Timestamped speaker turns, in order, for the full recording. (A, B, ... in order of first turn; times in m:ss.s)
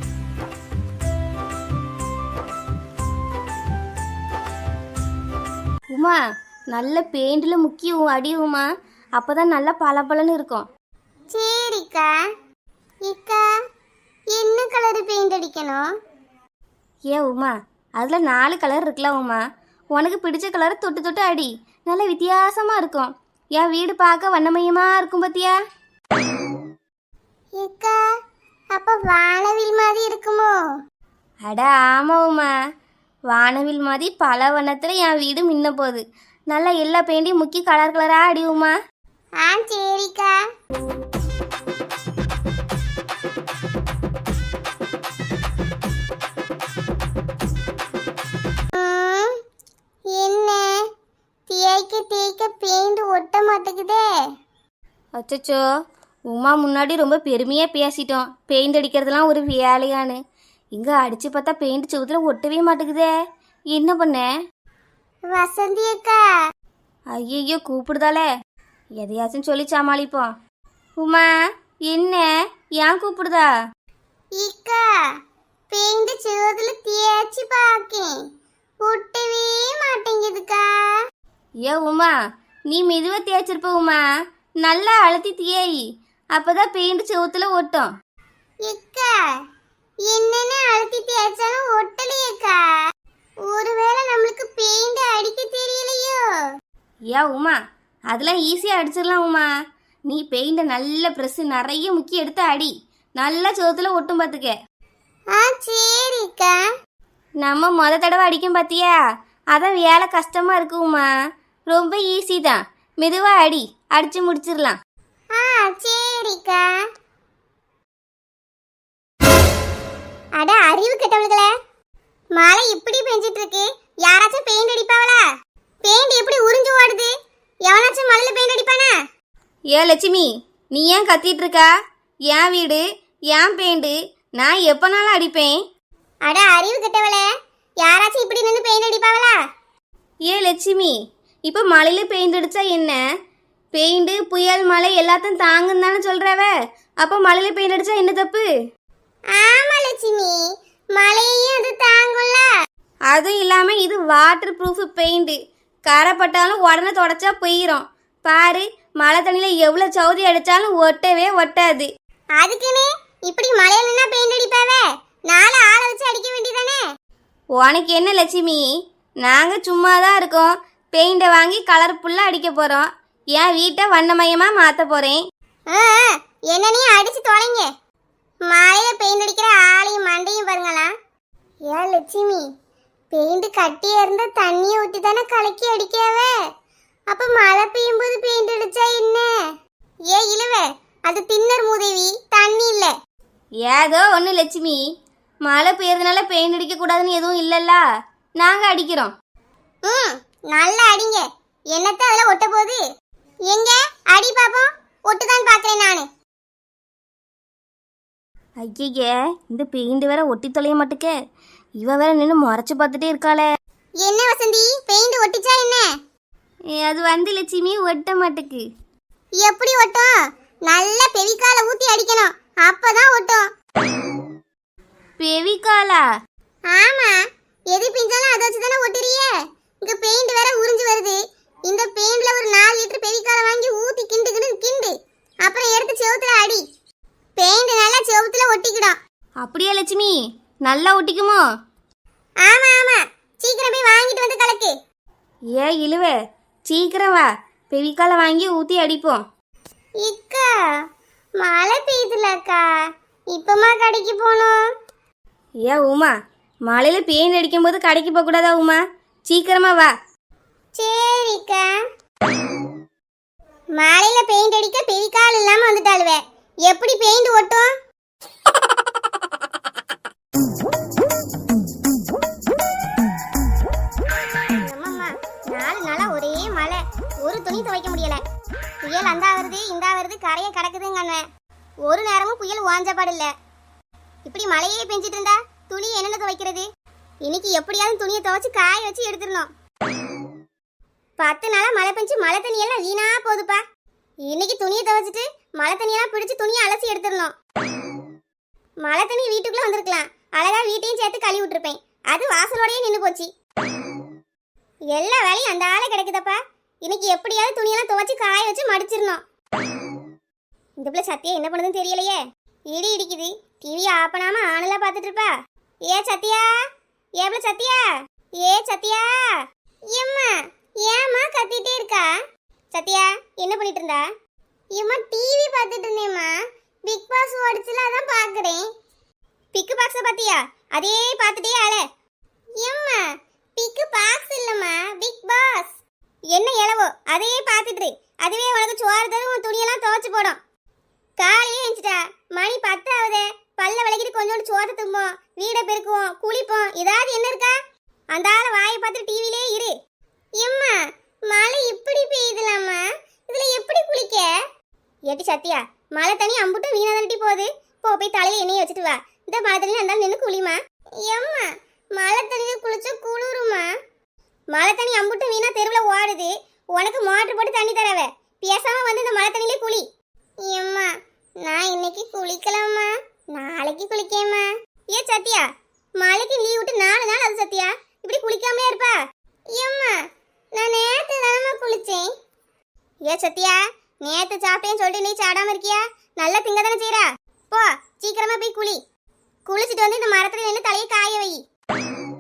0:05.9-0:06.2 A
0:06.7-0:08.7 A
0:09.2-0:10.7 A
0:11.3-0:12.1 B
0:13.1-0:13.4 B
0:14.3-0:15.8 B
0:17.1-0:19.4 A
0:19.9-0:25.6 A
0:27.6-0:28.0 B
0:28.8-0:30.5 B
0:31.5-0:32.5 A
0:33.3-0:38.8 A
0:39.4-0:40.3 B
0:48.8-0:49.3 B
0:50.1-0:50.8 B
0:51.5-0:54.0 B
0:55.2-0:55.6 A
0:56.3-1:00.2 A
1:00.8-1:03.1 A
1:03.7-1:04.3 A
1:05.3-1:06.2 B
1:07.1-1:08.3 A
1:09.0-1:10.4 A
1:11.0-1:11.3 A
1:11.9-1:12.3 A
1:12.8-1:13.5 A
1:14.4-1:14.8 B
1:15.7-1:18.1 B
1:18.8-1:20.6 B
1:21.6-1:22.1 A
1:22.7-1:24.0 A
1:24.6-1:25.8 A
1:26.4-1:27.9 A
1:28.7-1:29.1 B
1:30.1-1:32.6 B
1:33.5-1:36.2 B
1:37.1-1:37.6 A
1:38.1-1:39.5 A
1:40.1-1:44.6 A
1:45.3-1:46.6 B
1:47.4-1:49.0 A
1:49.5-1:51.1 A
1:51.7-1:54.8 A
1:55.4-1:56.6 B
2:00.4-2:01.5 B
2:02.3-2:05.2 B
2:05.8-2:07.1 B
2:07.7-2:08.9 B
2:09.7-2:11.7 A
2:12.3-2:15.6 A
2:16.2-2:17.3 B
2:17.8-2:19.4 B
2:20.3-2:21.0 A
2:21.5-2:23.0 A
2:23.7-2:28.5 A
2:29.3-2:30.4 B
2:31.0-2:32.4 B
2:33.1-2:41.9 A
2:42.4-2:46.8 B
2:47.6-2:48.6 A
2:49.2-2:55.2 A
2:55.7-2:57.7 B
2:58.5-3:00.9 B
3:01.7-3:02.5 B
3:03.1-3:06.3 B
3:07.1-3:09.3 B
3:10.1-3:12.9 B
3:13.6-3:14.8 A
3:15.5-3:17.8 A
3:18.4-3:19.1 A
3:19.9-3:22.8 B
3:23.5-3:26.1 B
3:28.6-3:31.1 A
3:31.8-3:33.4 A
3:34.0-3:35.9 B
3:36.8-3:38.6 A
3:39.4-3:40.1 B
3:40.7-3:43.5 B
3:45.2-3:46.0 A
3:46.7-3:47.1 B
3:47.7-3:49.3 B
3:49.8-3:54.9 B
3:55.4-3:56.6 B
3:57.4-3:59.0 B
3:59.4-4:01.4 A
4:02.4-4:04.7 B
4:05.6-4:06.2 A
4:06.7-4:09.2 A
4:10.0-4:10.5 B
4:11.4-4:12.6 B
4:13.3-4:14.6 B
4:15.6-4:16.1 A
4:16.7-4:19.9 A
4:20.8-4:21.6 B
4:23.8-4:27.7 B
4:34.5-4:38.2 B
4:38.8-4:41.2 B
4:41.9-4:43.3 B
4:44.3-4:46.7 B
4:47.2-4:49.5 B
4:51.2-4:53.6 B
4:54.3-4:57.3 B
4:58.8-5:03.3 B
5:04.9-5:09.2 B
5:10.8-5:12.2 B
5:12.7-5:15.3 B
5:15.9-5:16.5 B
5:17.2-5:17.8 B
5:18.4-5:19.1 B
5:19.9-5:22.1 B
5:22.7-5:24.1 B
5:24.7-5:26.3 B
5:26.9-5:28.6 B
5:29.5-5:31.8 B
5:32.6-5:33.0 B
5:33.6-5:35.8 B
5:36.3-5:40.4 B
5:41.2-5:47.5 B
5:48.1-5:49.7 B
5:50.4-5:50.8 B
5:51.3-5:54.3 B
5:55.1-6:03.6 B
6:04.5-6:09.8 B
6:10.4-6:10.9 B
6:11.4-6:15.4 B
6:16.0-6:19.0 B
6:19.5-6:20.0 B
6:20.6-6:22.1 B
6:23.1-6:28.8 B
6:29.5-6:31.4 B